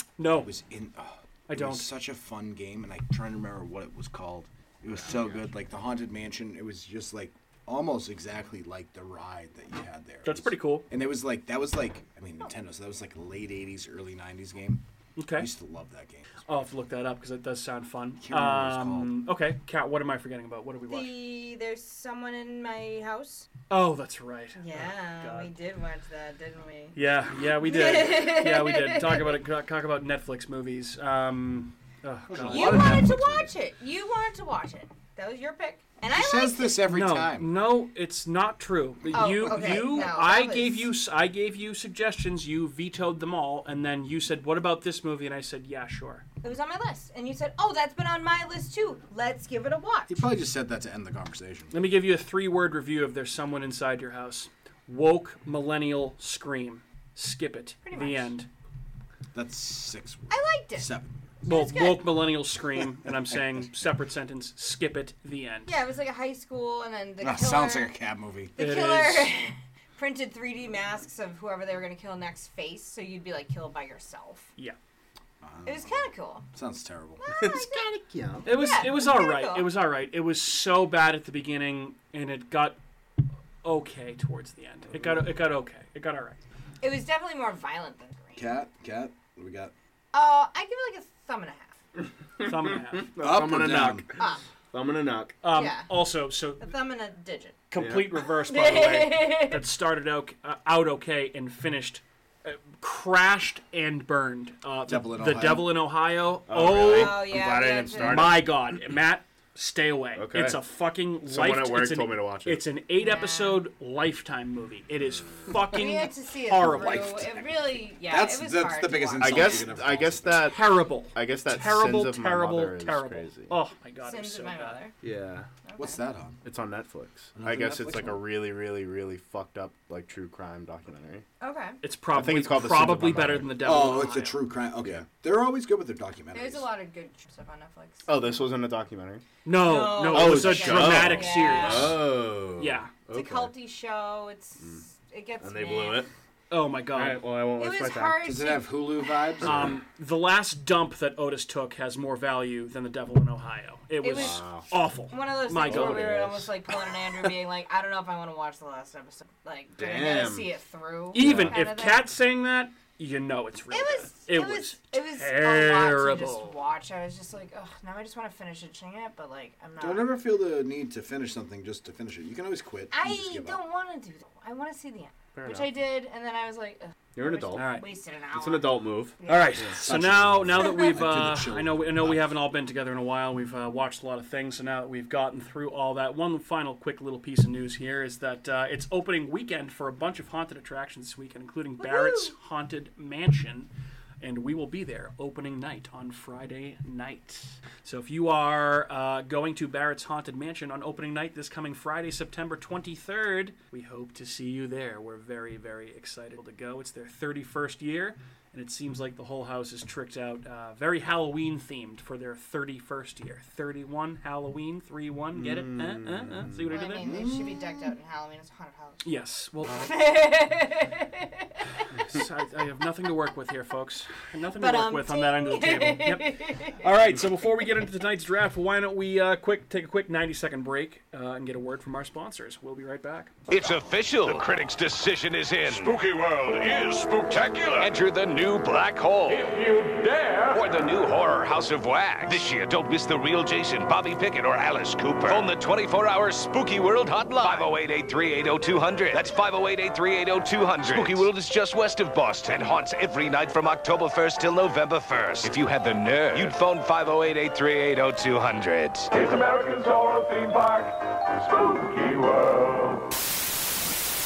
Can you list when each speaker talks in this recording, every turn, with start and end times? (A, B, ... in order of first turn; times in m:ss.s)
0:00.2-0:00.5 A
0:00.3-0:14.8 B
0:01.5-0:01.9 A
0:04.9-0:05.5 C
0:10.2-0:10.9 A
0:15.2-0:15.5 A
0:15.4-0:16.5 B
0:16.4-0:21.2 A
0:18.2-0:19.1 B
0:20.9-0:23.5 D
0:23.7-0:25.5 A
0:24.6-0:27.0 D
0:27.0-0:33.0 A
0:27.6-0:29.4 D
0:32.3-0:33.5 B
0:32.5-0:36.8 D
0:36.1-0:37.5 B
0:36.9-0:46.2 A
0:39.1-0:40.9 D
0:46.4-0:50.2 D
0:50.1-0:51.7 B
0:51.7-0:58.5 A
0:57.8-0:58.3 D
0:59.3-1:01.3 B
1:00.3-1:00.9 D
1:01.4-1:02.1 D
1:01.5-1:05.7 A
1:05.7-1:07.9 D
1:07.2-1:08.6 B
1:08.6-1:14.5 D
1:08.6-1:09.3 A
1:15.4-1:17.3 B
1:15.6-1:16.5 D
1:17.3-1:17.9 D
1:17.3-1:18.5 C
1:18.4-1:19.7 D
1:18.4-1:22.8 A
1:23.6-1:26.4 A
1:26.8-1:28.5 D
1:28.4-1:29.7 B
1:30.1-1:31.8 D
1:32.4-1:35.4 C
1:32.4-1:33.1 A
1:33.2-1:34.1 B
1:34.2-1:34.4 D
1:35.4-1:36.7 A
1:35.5-1:35.9 D
1:36.6-1:37.6 D
1:37.7-1:47.3 A
1:37.8-1:38.2 C
1:38.5-1:39.6 D
1:44.9-1:45.8 B
1:46.5-1:48.6 C
1:46.8-1:48.3 D
1:48.0-1:57.3 A
1:50.2-1:50.6 C
1:51.2-1:52.6 C
1:53.0-1:53.6 D
1:55.2-1:55.6 C
1:55.7-1:59.7 D
1:56.6-2:00.6 B
1:59.2-2:03.6 C
2:00.4-2:04.8 A
2:04.0-2:04.9 D
2:05.0-2:05.5 C
2:05.6-2:06.0 D
2:05.8-2:06.4 B
2:06.4-2:11.3 C
2:07.4-2:08.2 B
2:11.4-2:11.8 D
2:11.8-2:14.4 A
2:12.1-2:13.7 C
2:13.6-2:16.7 B
2:16.3-2:18.3 D
2:18.1-2:19.2 C
2:19.4-2:22.0 A
2:19.6-2:22.0 D
2:20.0-2:23.5 C
2:22.6-2:22.9 A
2:23.1-2:26.1 D
2:24.6-2:24.8 C
2:25.4-2:26.1 C
2:26.5-2:27.2 A
2:26.9-2:28.3 C
2:27.6-2:29.4 D
2:28.2-2:29.8 B
2:29.4-2:36.2 A
2:34.0-2:34.4 D
2:34.1-2:34.7 C
2:35.1-2:42.0 D
2:35.6-2:36.6 C
2:39.8-2:40.5 C
2:41.1-2:46.6 A
2:41.2-2:41.6 C
2:43.7-2:50.1 D
2:49.8-2:53.6 B
2:52.9-2:59.6 D
2:55.3-2:55.7 C
2:57.2-2:57.8 C
2:57.6-2:57.9 A
2:58.3-2:59.8 C
2:59.2-3:13.7 A
2:59.8-3:02.4 B
3:11.8-3:12.3 D
3:14.2-3:37.1 A
3:35.4-3:36.8 C
3:36.7-3:39.1 D
3:37.0-3:37.9 B
3:39.0-3:40.2 A
3:39.6-3:41.5 D
3:42.0-3:53.3 A
3:44.6-3:46.8 D
3:53.5-3:56.0 E
3:55.7-3:57.9 F
3:57.2-3:59.5 E
3:59.3-4:00.6 F
4:00.5-4:19.1 E
4:10.9-4:11.2 F
4:19.1-4:23.0 F